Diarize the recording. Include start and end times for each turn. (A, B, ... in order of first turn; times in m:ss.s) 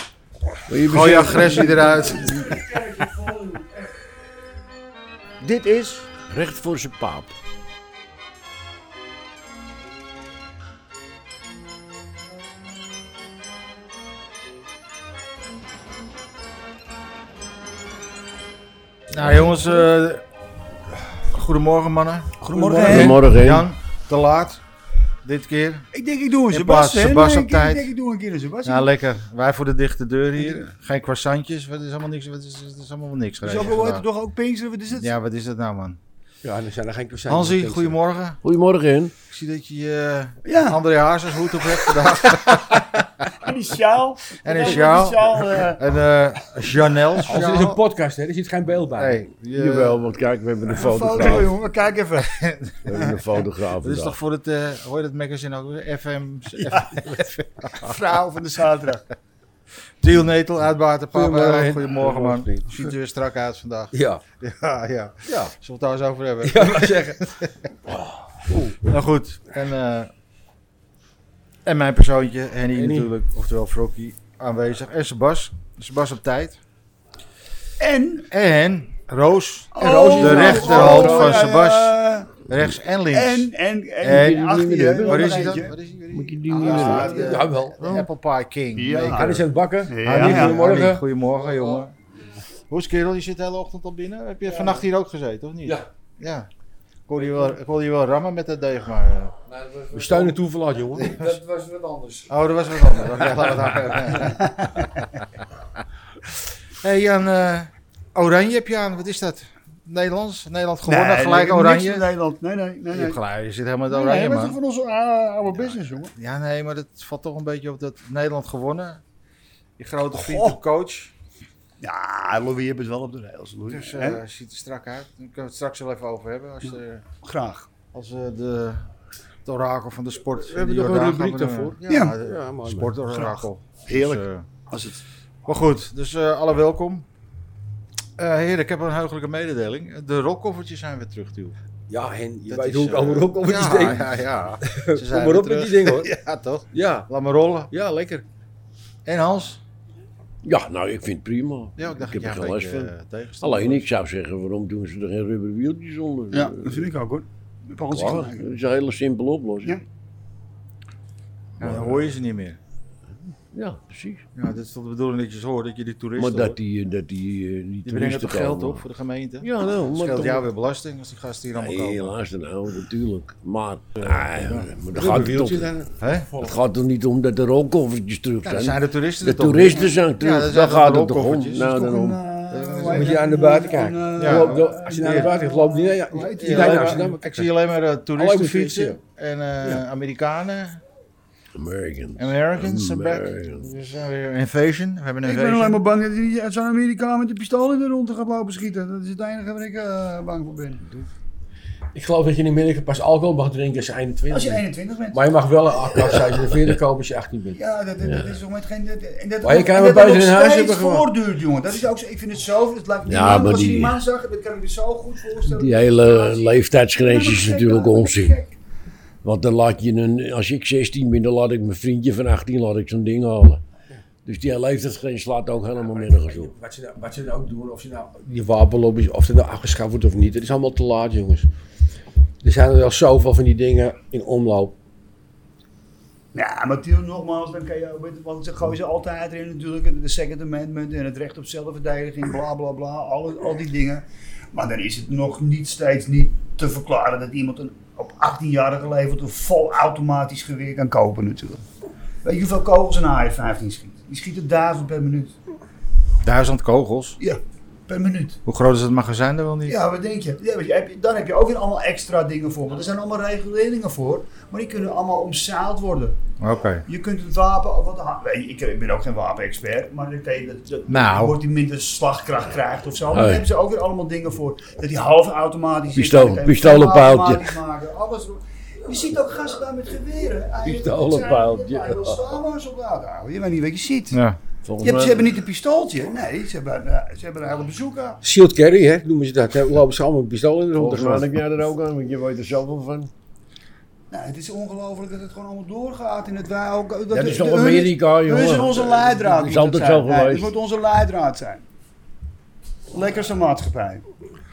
0:00.7-0:02.7 A
0:00.8-0:02.4 B
0:01.4-0:03.9 C
0:05.4-0:06.1 C
0:06.3-0:07.3 A
0:19.1-0:20.2 B
0:21.2-0:24.6 B
0:22.4-0:23.2 C
0:22.8-0:23.7 A
0:25.2-0:25.9 B
0:25.9-0:28.9 C
0:26.5-0:27.9 B
0:28.6-0:34.1 B
0:30.4-0:30.7 C
0:33.4-0:35.1 C
0:34.9-0:36.0 B
0:36.4-0:38.0 D
0:37.3-0:38.4 B
0:38.4-0:39.1 A
0:39.3-0:43.0 B
0:40.4-0:40.8 C
0:41.5-0:41.8 C
0:43.3-0:45.8 C
0:44.4-0:47.8 B
0:47.3-0:49.2 D
0:49.0-0:50.0 B
0:49.5-0:51.5 A
0:50.8-0:52.4 C
0:52.2-0:53.0 B
0:52.8-0:54.2 A
0:52.9-0:53.2 C
0:53.8-0:58.0 B
0:56.6-0:57.1 C
0:57.8-0:59.0 C
1:00.0-1:07.7 B
1:01.1-1:02.7 D
1:03.9-1:04.2 D
1:05.3-1:05.5 D
1:06.4-1:07.2 D
1:08.8-1:10.1 B
1:11.6-1:16.6 B
1:12.8-1:13.1 D
1:17.8-1:18.3 C
1:18.3-1:22.0 B
1:19.7-1:22.4 C
1:19.8-1:21.3 D
1:20.8-1:21.4 A
1:22.5-1:23.5 B
1:23.1-1:25.8 C
1:24.0-1:29.4 B
1:24.0-1:28.1 A
1:26.5-1:27.4 C
1:27.2-1:27.8 D
1:28.8-1:30.6 C
1:29.0-1:31.0 D
1:30.0-1:31.9 B
1:31.4-1:31.8 E
1:32.7-1:36.5 B
1:37.1-1:39.4 B
1:39.5-1:40.4 E
1:39.9-1:41.2 D
1:41.0-1:41.4 B
1:41.1-1:42.3 E
1:42.3-1:44.5 B
1:44.3-1:45.0 C
1:46.8-1:52.1 B
1:50.8-1:53.2 C
1:52.9-1:54.6 B
1:53.9-1:56.1 C
1:55.5-1:59.0 B
1:59.8-2:01.1 B
2:00.1-2:00.6 C
2:01.8-2:04.2 C
2:03.7-2:07.0 B
2:06.7-2:07.7 C
2:07.9-2:08.9 B
2:09.4-2:14.5 B
2:10.4-2:12.9 D
2:11.9-2:12.2 C
2:13.1-2:15.0 C
2:15.5-2:17.1 B
2:18.2-2:21.6 B
2:21.9-2:26.1 D
2:22.5-2:27.7 B
2:26.7-2:27.1 D
2:27.7-2:28.2 D
2:29.1-2:29.6 B
2:30.4-2:36.9 A
2:31.8-2:33.9 B
2:36.3-2:38.5 C
2:37.9-2:39.8 A
2:41.6-2:42.6 B
2:41.6-2:42.1 A
2:43.5-2:44.3 A
2:44.4-2:46.6 B
2:46.2-2:48.8 A
2:47.9-2:52.2 B
2:49.4-2:50.5 A
2:51.6-2:55.7 A
2:54.0-2:54.7 B
2:55.0-2:56.6 D
2:56.0-2:56.3 B
2:56.4-3:02.2 A
2:58.4-3:01.7 B
3:01.6-3:07.1 C
3:02.5-3:03.2 B
3:02.9-3:07.5 D
3:04.2-3:05.4 B
3:06.2-3:10.8 B
3:08.2-3:09.0 D
3:11.6-3:13.7 A
3:12.2-3:15.8 B
3:15.2-3:20.9 C
3:21.9-3:27.6 D
3:24.3-3:26.4 C
3:27.6-3:38.6 C
3:28.0-3:28.4 A
3:29.4-3:31.1 D
3:33.0-3:34.0 A
3:35.5-3:38.4 A
3:39.2-3:43.6 A
3:44.2-3:46.5 A
3:45.9-3:51.5 D
3:52.4-3:54.8 D
3:56.4-4:11.6 C
4:12.2-4:15.4 C
4:16.2-4:17.2 B
4:17.2-4:18.4 C
4:18.4-4:19.8 B
4:19.7-4:26.2 C
4:26.4-4:26.9 B
4:26.9-4:44.2 C
4:30.9-4:31.4 B
4:33.1-4:33.5 A
4:35.9-4:37.6 A
4:40.6-4:42.4 A
4:44.1-4:44.4 B
4:44.6-4:45.4 A
4:44.8-4:48.2 C
4:48.2-4:51.3 D
4:50.8-4:53.1 A
4:54.1-5:01.7 C
4:57.1-5:00.5 A
5:02.9-5:04.1 C